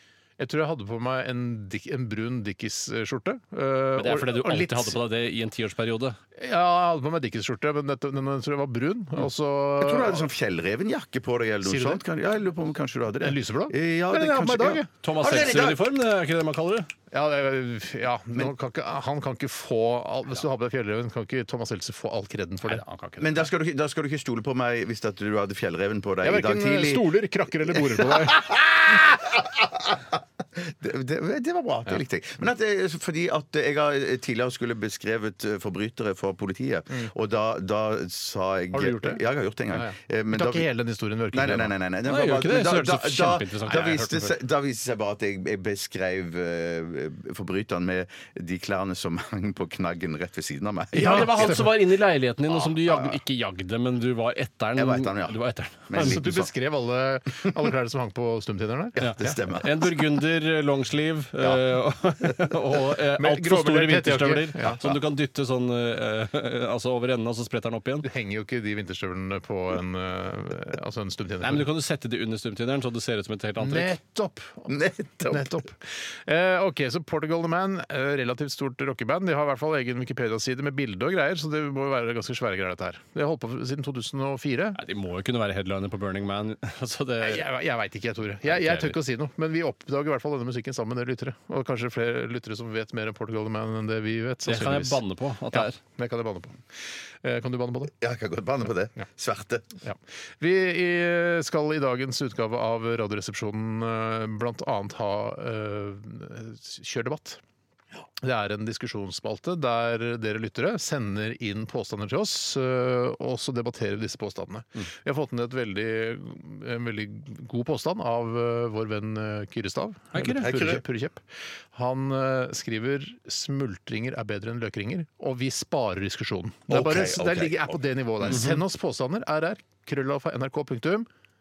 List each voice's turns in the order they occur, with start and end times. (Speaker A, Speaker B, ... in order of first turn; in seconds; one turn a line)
Speaker A: 0.4-5.0
Speaker B: 4.0-6.2
Speaker A: 6.4-10.3
Speaker C: 9.8-15.9
Speaker A: 11.6-12.0
Speaker A: 13.2-14.9
Speaker B: 15.0-16.9
Speaker A: 17.1-23.5
Speaker C: 23.2-27.2
Speaker A: 26.2-29.0
Speaker C: 27.9-30.0
Speaker C: 30.6-40.7
Speaker A: 38.7-41.7
Speaker C: 41.3-51.7
Speaker B: 42.1-44.3
Speaker A: 43.7-44.1
Speaker A: 50.9-51.7
Speaker B: 50.9-56.2
Speaker C: 52.5-53.2
Speaker C: 54.8-56.5
Speaker A: 56.0-59.4
Speaker B: 59.0-68.1
Speaker C: 59.0-60.0
Speaker A: 63.2-64.8
Speaker A: 68.0-71.7
Speaker B: 71.4-73.9
Speaker A: 73.6-84.8
Speaker C: 74.7-75.6
Speaker B: 84.7-87.5
Speaker A: 87.2-96.6
Speaker B: 88.5-89.0
Speaker B: 94.5-95.8
Speaker A: 97.2-97.9
Speaker C: 98.0-99.7
Speaker A: 99.8-107.4
Speaker A: 108.2-131.1
Speaker B: 120.1-120.5
Speaker C: 120.4-120.8
Speaker C: 126.7-128.4
Speaker B: 128.3-128.6